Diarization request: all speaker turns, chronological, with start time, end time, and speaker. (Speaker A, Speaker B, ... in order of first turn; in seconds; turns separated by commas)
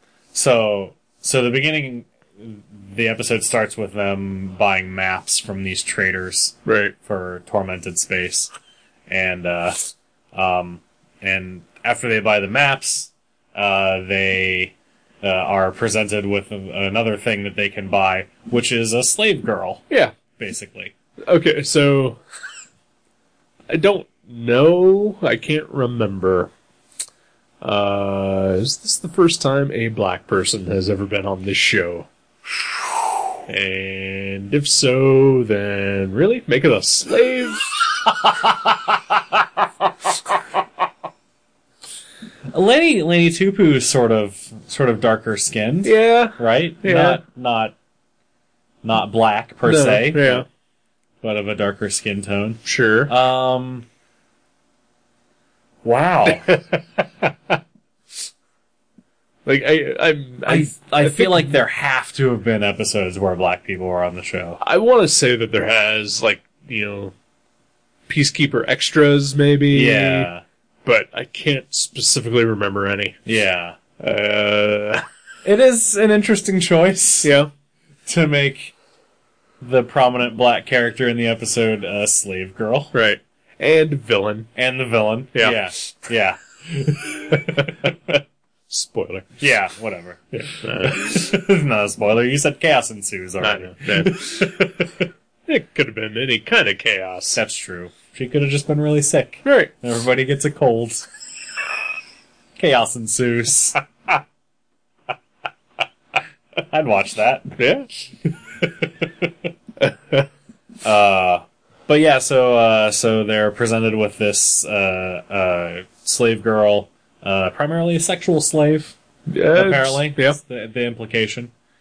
Speaker A: 0.3-8.5, Speaker B: 6.6-6.9, Speaker A: 9.1-19.8, Speaker A: 20.4-20.9, Speaker B: 21.2-22.2, Speaker B: 23.7-26.5, Speaker B: 27.6-32.1, Speaker B: 33.5-37.7, Speaker A: 38.2-39.0, Speaker A: 42.5-47.7, Speaker B: 45.8-47.2, Speaker A: 48.8-50.5, Speaker B: 49.6-50.5, Speaker A: 51.2-53.9, Speaker B: 52.6-53.1, Speaker A: 55.8-56.6, Speaker B: 56.3-56.7, Speaker B: 59.4-61.6, Speaker A: 60.5-64.6, Speaker B: 64.6-67.1, Speaker B: 68.1-70.3, Speaker A: 69.7-70.4, Speaker B: 70.8-73.2, Speaker A: 73.2-73.8, Speaker B: 74.0-75.0, Speaker A: 75.4-77.3, Speaker B: 77.2-77.5, Speaker A: 78.1-78.7, Speaker A: 79.6-82.9, Speaker B: 82.9-84.5, Speaker A: 84.5-87.9, Speaker B: 85.3-85.6, Speaker B: 87.3-88.2, Speaker B: 88.7-89.3, Speaker A: 89.4-94.9, Speaker B: 90.3-91.2, Speaker B: 93.4-94.6, Speaker B: 95.5-97.4, Speaker A: 97.3-101.0, Speaker B: 99.4-99.7, Speaker A: 102.6-103.8, Speaker A: 106.7-107.6, Speaker B: 107.6-107.9, Speaker A: 108.2-109.1, Speaker B: 109.8-110.3, Speaker A: 110.8-119.0, Speaker B: 119.3-120.4, Speaker A: 119.5-121.5